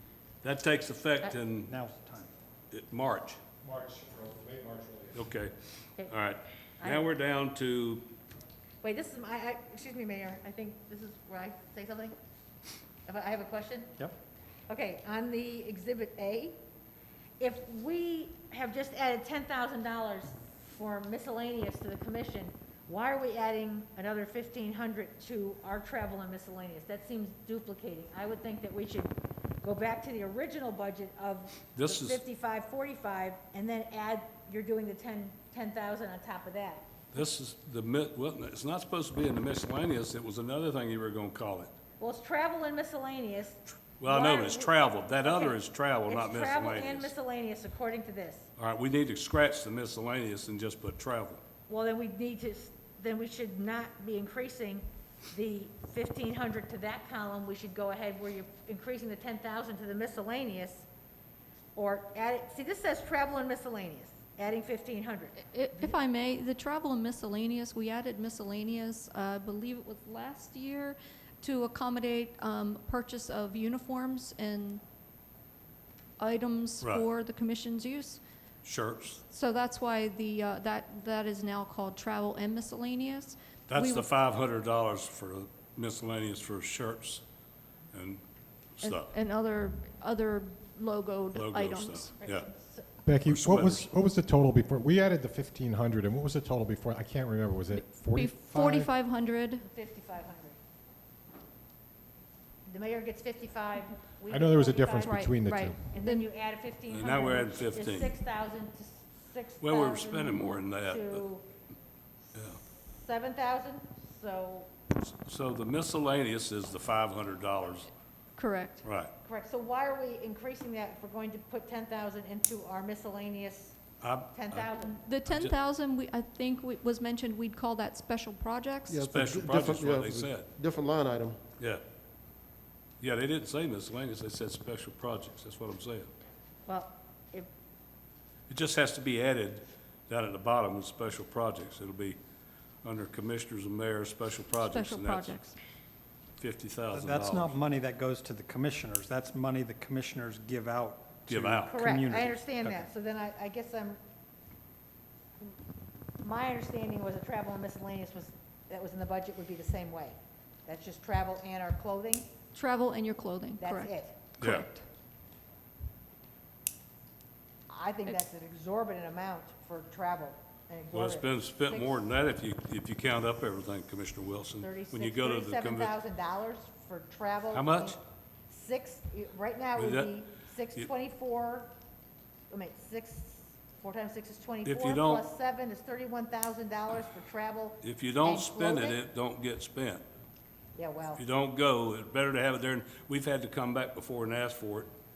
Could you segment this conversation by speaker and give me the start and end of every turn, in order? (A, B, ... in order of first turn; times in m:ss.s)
0:00.4-0:01.7 A
0:01.7-0:02.3 B
0:02.7-0:03.4 A
0:03.6-0:05.2 C
0:05.1-0:05.5 A
0:06.1-0:08.1 A
0:06.8-0:07.1 D
0:08.8-0:12.2 D
0:13.1-0:13.9 D
0:14.7-0:16.6 D
0:17.4-0:36.9 D
0:31.7-0:32.2 A
0:37.1-0:41.7 A
0:42.0-0:48.5 D
0:44.0-0:47.1 A
0:48.6-0:51.4 A
0:51.7-1:00.9 D
1:01.7-1:05.9 D
1:05.5-1:14.8 E
1:16.2-1:18.2 E
1:18.6-1:19.2 A
1:19.3-1:24.1 E
1:23.7-1:27.2 A
1:27.9-1:28.2 A
1:28.8-1:29.1 A
1:28.8-1:32.1 E
1:31.3-1:32.5 A
1:32.2-1:32.9 D
1:33.0-1:38.9 C
1:33.2-1:33.9 A
1:37.7-1:39.6 E
1:39.6-1:40.6 D
1:42.6-1:45.2 D
1:44.3-1:45.8 C
1:44.9-1:46.2 E
1:45.9-1:51.4 D
1:46.9-1:48.1 A
1:49.6-1:51.2 A
1:52.3-1:52.6 A
1:52.7-1:54.7 D
1:55.0-1:57.9 A
1:58.4-1:58.8 E
1:58.8-1:59.1 A
1:59.2-2:03.8 D
2:04.0-2:04.7 A
2:04.3-2:05.0 D
2:04.8-2:09.1 E
2:05.2-2:05.5 A
2:08.9-2:11.4 F
2:09.0-2:10.5 A
2:13.0-2:16.1 A
2:16.6-2:17.5 D
2:18.5-2:22.2 A
2:22.8-2:25.4 A
2:24.5-2:25.6 E
2:26.4-2:27.6 A
2:26.9-2:32.9 B
2:31.3-2:31.8 A
2:31.6-2:34.0 D
2:36.2-2:42.3 D
2:42.5-2:44.8 E
2:43.6-2:44.3 D
2:44.4-2:44.7 A
2:47.7-2:52.0 D
2:50.9-2:55.9 A
2:54.6-2:58.0 D
2:57.5-2:58.0 A
2:58.5-3:01.7 D
2:59.8-3:00.2 A
3:02.5-3:09.0 D
3:04.6-3:05.2 A
3:07.8-3:10.0 A
3:10.8-3:11.2 D
3:11.2-3:14.9 A